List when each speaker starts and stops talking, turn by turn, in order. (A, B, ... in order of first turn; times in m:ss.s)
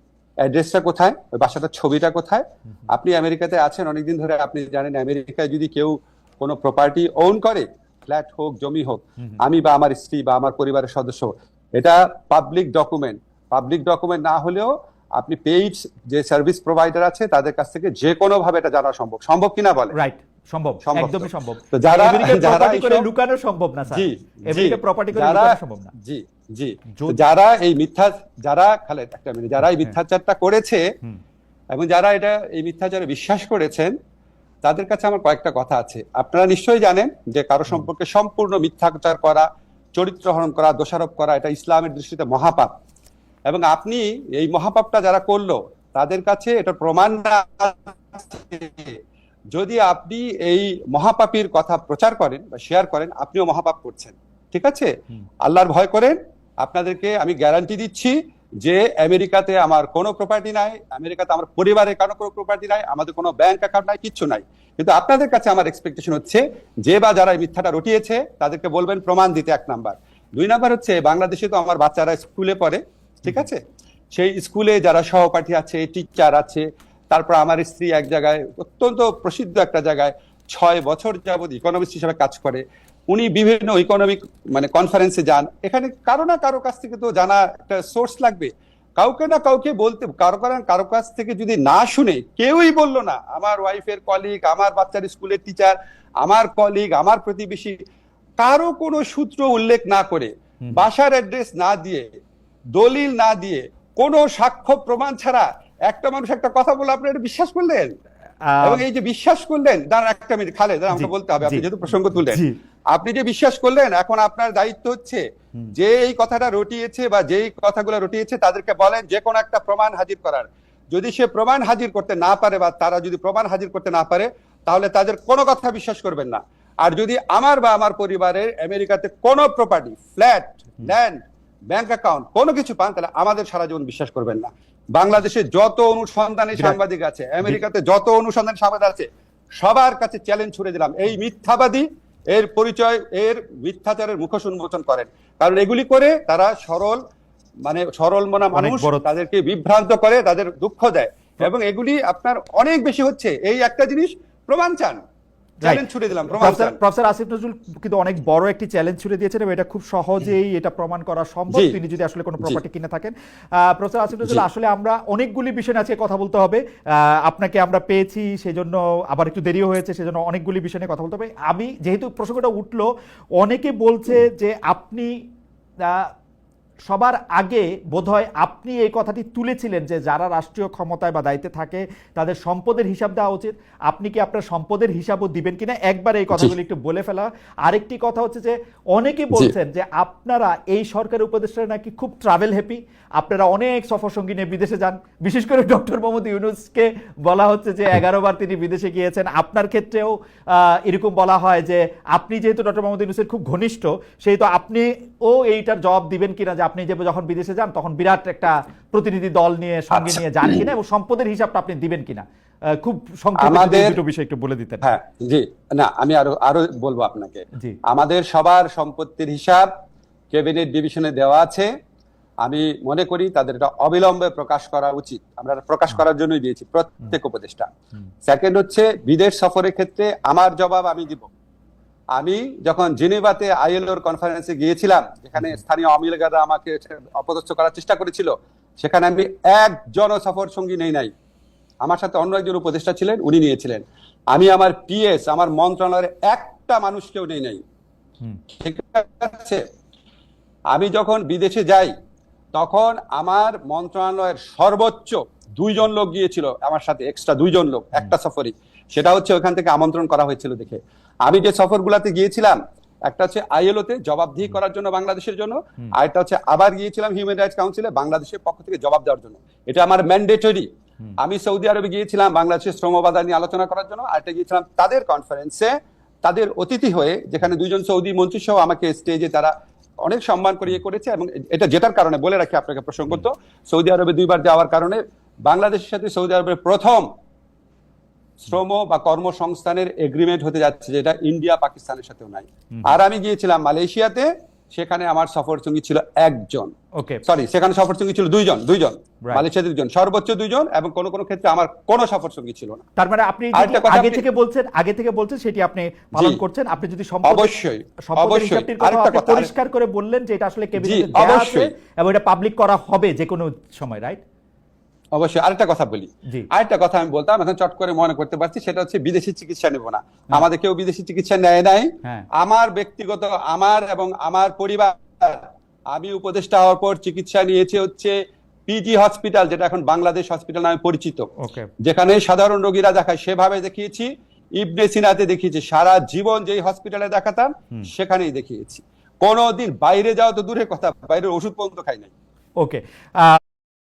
0:00.4-0:19.9 A
0:19.9-0:25.9 B
0:20.8-0:23.0 A
0:23.9-0:30.8 A
0:26.9-0:27.2 B
0:29.7-0:29.9 B
0:31.7-0:33.9 A
0:34.6-0:42.7 A
0:43.5-0:49.0 A
0:49.5-0:54.9 A
0:55.4-1:13.6 A
1:14.1-1:37.8 A
1:38.4-1:42.1 A
1:42.8-1:47.9 A
1:48.4-1:48.8 B
1:48.6-1:55.2 A
1:50.9-1:52.5 B
1:55.7-2:11.2 A
2:11.7-2:27.0 A
2:27.6-2:35.0 A
2:28.5-2:29.0 B
2:35.6-2:36.8 A
2:36.3-2:52.8 B
2:53.4-2:55.1 B
2:55.8-2:56.1 B
2:56.9-3:34.8 B
3:29.9-3:30.6 A
3:33.4-3:34.0 A
3:34.8-3:39.7 A
3:40.3-3:41.7 A
3:42.4-3:47.7 A
3:48.3-3:51.3 A
3:52.1-4:01.1 A
4:01.8-4:07.6 A
4:08.6-4:09.6 A
4:10.7-4:11.9 A
4:12.5-4:30.7 A
4:31.2-4:35.7 A
4:36.2-4:39.5 A
4:40.0-4:47.1 A
4:48.4-4:56.7 A
4:52.7-4:53.0 B
4:57.0-4:57.2 B
4:57.2-5:02.8 A
5:03.0-5:07.5 B
5:03.5-5:04.2 A
5:07.2-5:09.5 A
5:08.0-5:14.2 B
5:10.8-5:11.7 A
5:15.1-5:31.3 A
5:31.4-5:31.7 B
5:31.8-5:42.1 A
5:42.6-5:43.4 B